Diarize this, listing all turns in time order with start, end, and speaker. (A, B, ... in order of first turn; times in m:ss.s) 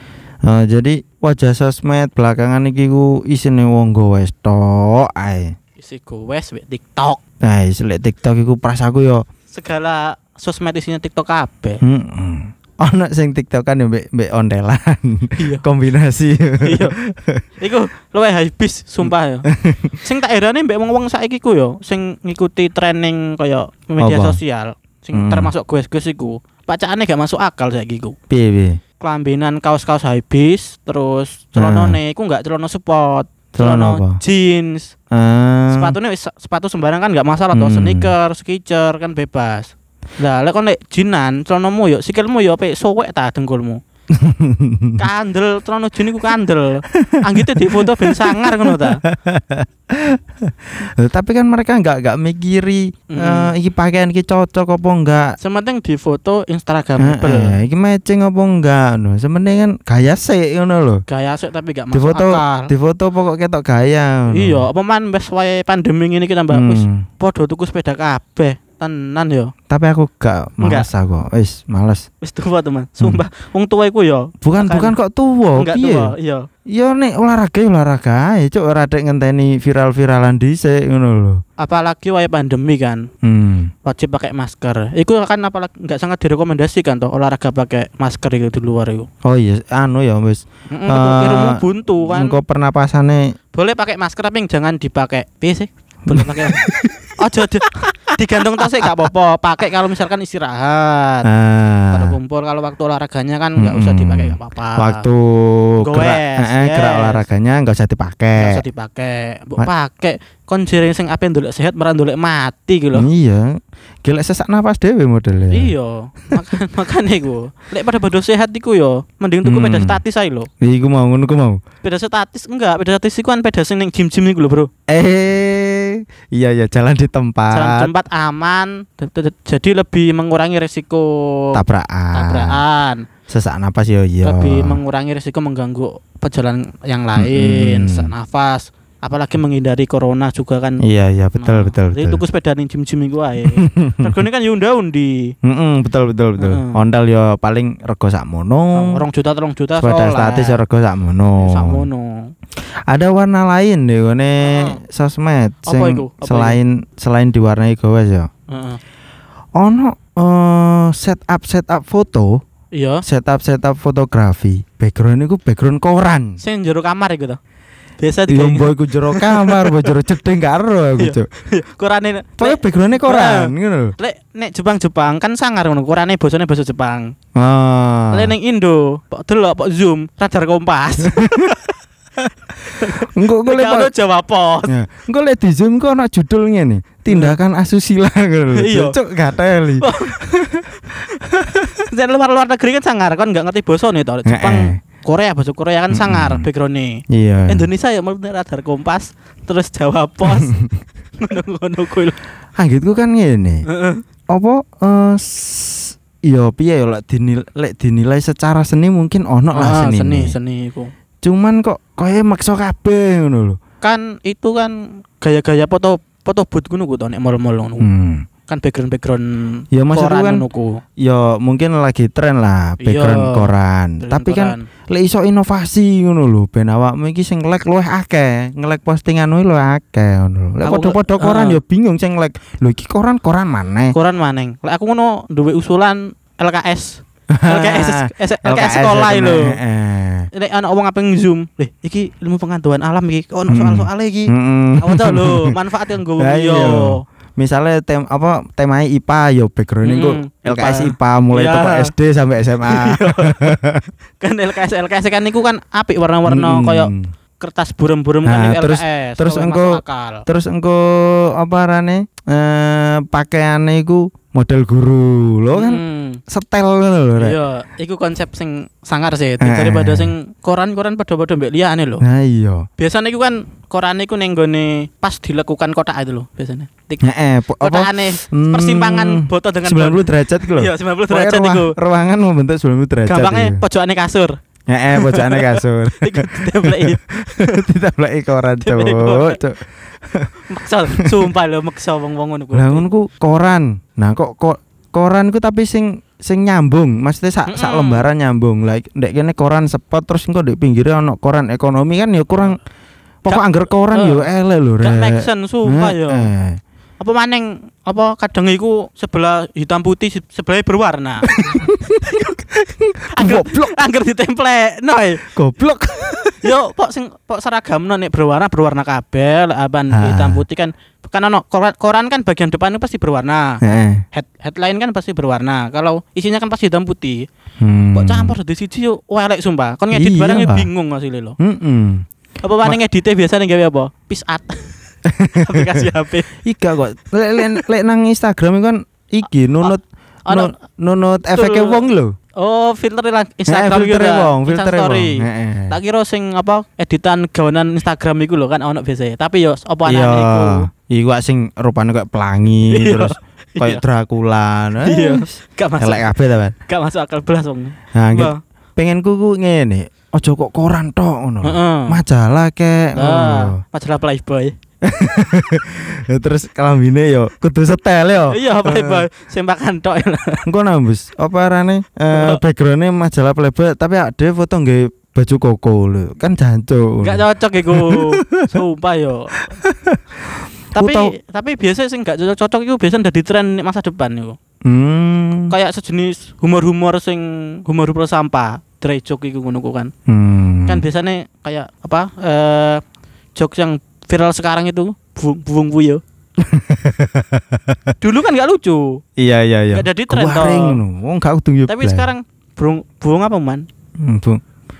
0:00.4-0:05.5 A
0:05.8-0:07.2 B
0:07.4-0:09.2 A
0:09.5-0:11.8 B
0:11.8-0:17.4 A
0:15.4-0:15.6 B
0:16.6-0:17.0 B
0:17.6-0:19.5 B
0:19.0-0:20.0 A
0:20.0-0:28.2 B
0:24.0-0:24.4 A
0:25.1-0:25.5 A
0:28.3-0:28.8 A
0:29.0-0:34.9 B
0:31.6-0:32.0 A
0:33.6-0:34.2 A
0:35.1-0:36.0 A
0:35.7-0:43.8 B
0:37.5-0:38.1 A
0:44.1-0:45.0 A
0:45.0-0:49.0 B
0:46.9-0:55.4 A
0:53.1-0:53.5 B
0:55.4-0:57.6 B
0:57.0-1:01.0 A
1:01.1-1:02.7 B
1:01.9-1:04.6 A
1:04.3-1:09.5 B
1:06.5-1:07.0 A
1:09.7-1:12.1 A
1:10.6-1:10.9 B
1:12.2-1:15.0 B
1:14.4-1:16.1 A
1:15.5-1:16.5 B
1:16.7-1:21.4 A
1:21.6-1:23.1 B
1:23.2-1:23.7 A
1:23.8-1:29.1 B
1:29.2-1:33.3 A
1:30.7-1:32.4 B
1:33.5-1:36.6 B
1:36.1-1:37.2 A
1:37.2-1:41.3 B
1:41.2-1:42.2 A
1:41.9-1:45.0 B
1:43.6-1:48.6 A
1:45.8-1:47.3 B
1:48.4-1:53.1 B
1:52.9-1:55.7 A
1:55.5-2:00.5 B
1:59.4-2:00.0 A
2:00.6-2:01.6 A
2:01.8-2:04.7 B
2:04.9-2:07.9 A
2:07.5-2:11.6 B
2:11.5-2:12.6 A
2:12.1-2:13.0 B
2:13.3-2:14.8 A
2:14.2-2:20.8 B
2:17.2-2:18.1 A
2:20.8-2:22.2 A
2:21.4-2:25.3 B
2:23.6-2:24.1 A
2:25.4-2:29.0 A
2:26.4-2:26.8 B
2:28.7-2:30.6 B
2:29.8-2:31.8 A
2:31.4-2:32.3 B
2:32.6-2:38.3 A
2:34.4-2:34.8 B
2:35.6-2:36.6 B
2:38.5-2:38.8 B
2:39.6-2:42.4 A
2:42.7-2:43.0 B
2:43.0-2:46.4 A
2:46.4-2:47.4 B
2:48.0-2:50.0 B
2:48.3-2:51.3 A
2:51.0-2:57.1 B
2:52.4-2:53.9 A
2:57.4-2:58.3 A
2:58.1-3:01.6 B
3:01.1-3:01.6 A
3:02.6-3:04.8 B
3:03.0-3:03.9 A
3:04.7-3:10.8 A
3:07.1-3:07.4 B
3:08.5-3:09.0 B
3:09.8-3:10.3 B
3:10.8-3:20.6 B
3:11.4-3:11.6 A
3:14.2-3:14.8 A
3:15.9-3:16.5 A
3:17.1-3:17.7 A
3:20.3-3:20.7 A
3:21.2-3:22.2 B
3:22.6-3:23.6 A
3:23.7-3:24.0 B
3:24.3-3:30.4 A
3:29.5-3:30.9 B
3:31.2-3:33.6 A
3:33.8-3:37.9 B
3:37.8-3:38.2 A
3:38.5-3:40.8 B
3:39.7-3:40.4 A
3:41.0-3:54.0 A
3:42.8-3:44.6 B
3:50.6-3:51.6 B
3:53.9-3:59.6 B
3:57.3-4:00.3 A
4:00.3-4:07.0 B
4:03.5-4:05.6 A
4:06.2-4:13.9 A
4:09.8-4:11.9 B
4:12.6-4:13.6 B
4:14.2-4:20.2 B
4:16.2-4:17.1 A
4:18.2-4:27.4 A
4:25.5-4:26.2 B
4:27.2-4:32.0 B
4:29.4-4:30.1 A
4:32.0-4:32.6 A
4:32.8-4:37.1 B
4:37.0-4:43.6 A
4:37.6-4:41.7 B
4:43.0-4:44.4 B
4:44.7-4:50.3 A
4:45.0-4:47.6 B
4:48.6-4:49.4 B
4:50.5-4:52.8 B
4:51.0-4:51.3 A
4:52.5-5:02.6 A
4:57.5-4:58.1 B
5:03.2-5:06.6 A
5:03.3-5:04.3 B
5:04.8-5:06.3 B
5:07.0-5:11.7 B
5:11.2-5:13.7 A
5:13.1-5:15.2 B
5:15.3-5:16.5 A
5:16.4-5:27.3 B
5:19.9-5:20.4 A
5:23.6-5:24.0 A
5:27.6-5:28.3 A
5:27.9-5:31.4 B
5:29.9-5:30.7 A
5:31.4-5:32.0 A
5:32.4-5:34.8 B
5:35.1-5:35.9 A
5:35.3-5:36.3 B
5:36.4-5:42.1 A
5:40.3-5:40.5 B
5:41.3-5:41.9 B
5:42.4-5:50.7 B
5:43.5-5:45.8 A
5:49.8-5:56.5 A
5:52.7-5:53.8 B
5:54.8-5:56.1 B
5:56.6-5:58.4 B
5:57.9-6:03.6 A
6:01.4-6:02.0 B
6:02.9-6:04.5 B
6:04.8-6:09.1 A
6:08.3-6:10.4 B
6:10.5-6:18.6 A
6:12.1-6:12.4 B
6:17.0-6:19.5 B
6:19.6-6:21.1 A
6:20.8-6:24.4 B
6:24.6-6:25.5 A
6:25.5-6:29.9 B
6:30.1-6:30.8 A
6:30.7-6:32.8 B
6:33.3-6:36.0 B
6:36.4-6:37.9 A
6:38.0-6:39.0 B
6:39.2-6:42.1 A
6:39.7-6:40.8 B
6:41.6-6:43.6 B
6:44.0-6:44.4 A